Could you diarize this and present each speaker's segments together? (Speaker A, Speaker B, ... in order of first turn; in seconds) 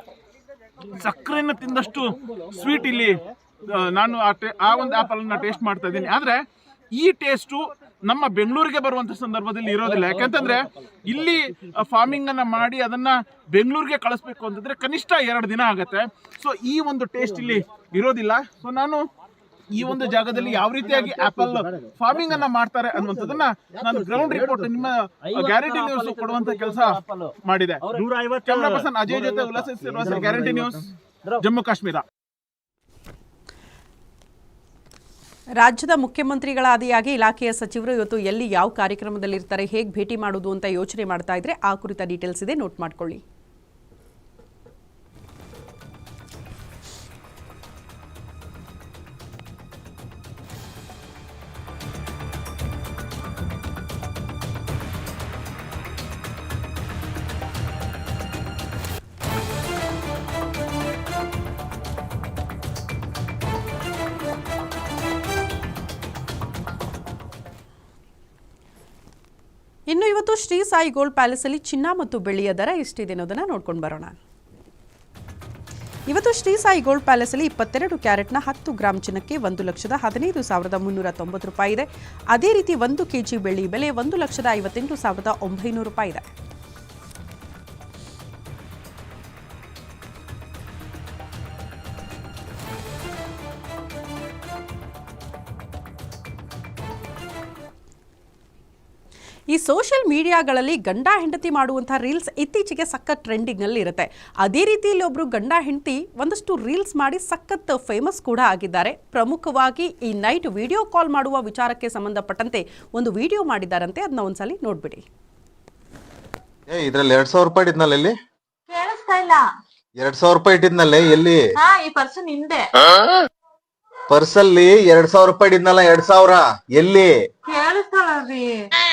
Speaker A: 1.0-3.1, 3.7-6.4, 7.0-19.0, 19.7-30.9, 31.4-32.0
Speaker B: 35.6-43.2, 69.9-74.1, 76.1-86.2, 99.5-115.0
Speaker C: 116.7-118.1, 120.0-121.4, 124.1-127.1
Speaker D: 118.7-119.4, 121.6-122.6, 127.5-128.6